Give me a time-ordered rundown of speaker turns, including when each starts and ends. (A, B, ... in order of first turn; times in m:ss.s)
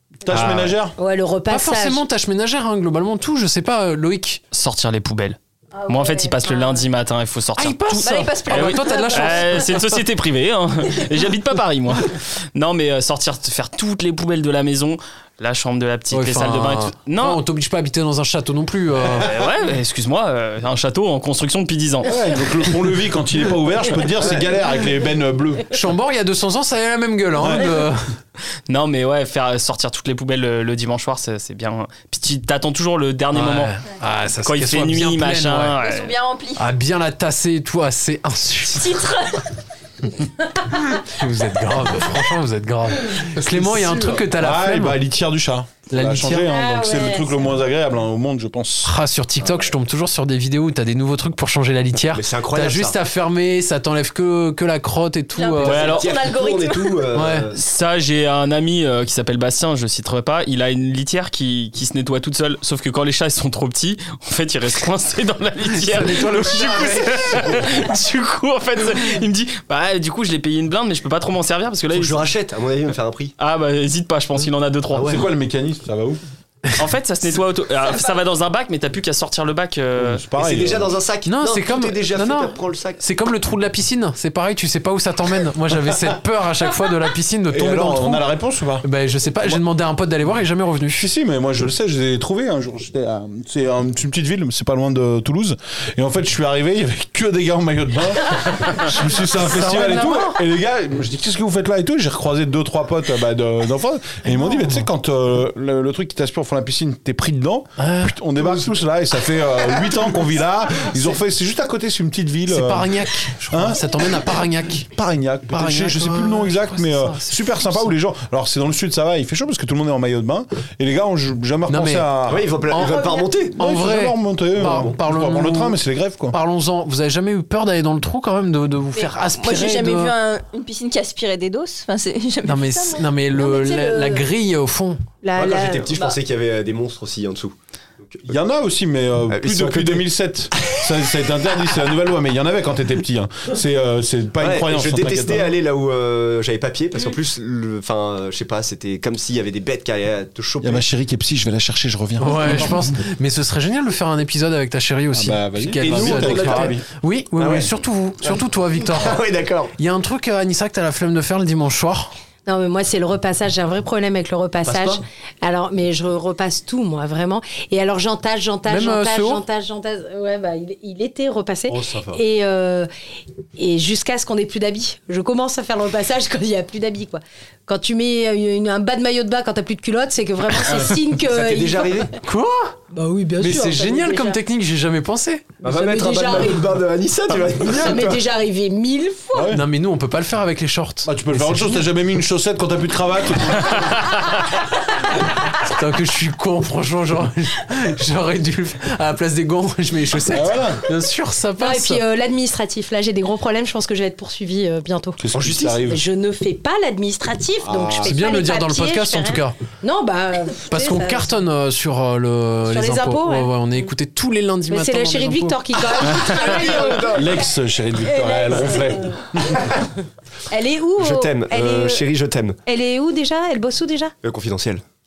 0:00.2-0:01.0 A
0:00.3-0:00.8 B
0:01.0-0:02.0 C
0:01.5-0:04.4 D
0:04.5-0:17.4 B
0:05.8-0:06.8 C
0:07.6-0:09.8 D
0:08.0-0:09.8 E
0:16.1-0:19.3 D
0:19.1-0:22.2 B
0:22.0-0:25.8 A
0:25.7-0:28.1 D
0:27.4-0:27.8 A
0:28.7-0:33.7 B
0:33.3-0:35.8 D
0:34.4-0:36.1 B
0:35.8-0:36.7 E
0:36.6-0:39.0 D
0:38.7-0:39.5 E
0:40.7-0:45.0 D
0:43.6-0:44.2 F
0:44.4-0:48.9 A
0:45.9-0:46.5 D
0:46.4-0:47.3 C
0:48.8-0:55.9 D
0:49.4-0:49.7 F
0:52.1-0:53.0 F
0:55.4-0:57.1 E
0:55.6-0:57.6 F
0:55.6-0:56.2 B
0:57.1-0:57.5 D
0:57.5-1:12.3 B
1:05.8-1:07.8 D
1:11.9-1:13.3 F
1:13.4-1:15.3 B
1:15.0-1:16.2 A
1:16.8-1:20.2 B
1:20.0-1:21.0 A
1:20.3-1:23.0 F
1:21.3-1:28.3 D
1:27.5-1:28.8 A
1:28.8-1:31.1 D
1:31.0-1:53.9 A
1:39.2-1:40.4 D
1:47.8-1:48.7 D
1:52.5-1:54.9 D
1:54.9-2:02.5 A
1:55.5-1:57.9 D
2:01.7-2:02.1 D
2:02.3-2:03.6 F
2:02.7-2:02.9 D
2:02.8-2:03.3 C
2:03.5-2:05.8 D
2:03.6-2:06.4 A
2:04.6-2:05.0 F
2:06.3-2:10.1 D
2:09.0-2:13.1 E
2:12.4-2:15.0 D
2:13.4-2:14.2 C
2:15.2-2:16.2 C
2:15.4-2:18.3 F
2:18.3-2:25.6 A
2:19.3-2:20.1 F
2:24.4-2:30.8 F
2:30.6-2:33.0 A
2:32.2-2:39.2 D
2:35.1-2:36.8 A
2:35.8-2:36.8 F
2:37.4-2:37.7 F
2:38.2-2:39.7 F
2:39.8-2:42.1 D
2:42.5-2:52.9 C
2:44.6-2:45.0 F
2:48.7-2:49.4 D
2:51.7-2:52.2 F
2:53.6-3:02.1 C
3:01.2-3:02.1 F
3:02.2-3:02.9 D
3:02.9-3:04.4 C
3:03.4-3:05.5 D
3:05.6-3:08.2 F
3:05.6-3:06.7 C
3:07.6-3:09.6 C
3:09.3-3:09.7 A
3:09.5-3:11.8 D
3:11.0-3:14.1 A
3:15.2-3:22.0 D
3:20.3-3:20.8 A
3:21.6-3:31.3 C
3:25.2-3:26.0 A
3:25.4-3:25.8 F
3:27.6-3:28.3 A
3:28.0-3:29.6 D
3:30.7-3:35.6 D
3:32.7-3:33.8 C
3:34.7-3:37.4 C
3:36.2-3:37.4 F
3:37.1-3:39.7 A
3:38.0-3:39.9 C
3:40.5-3:42.0 C
3:41.0-3:42.6 F
3:42.7-3:44.1 C
3:44.2-3:44.8 F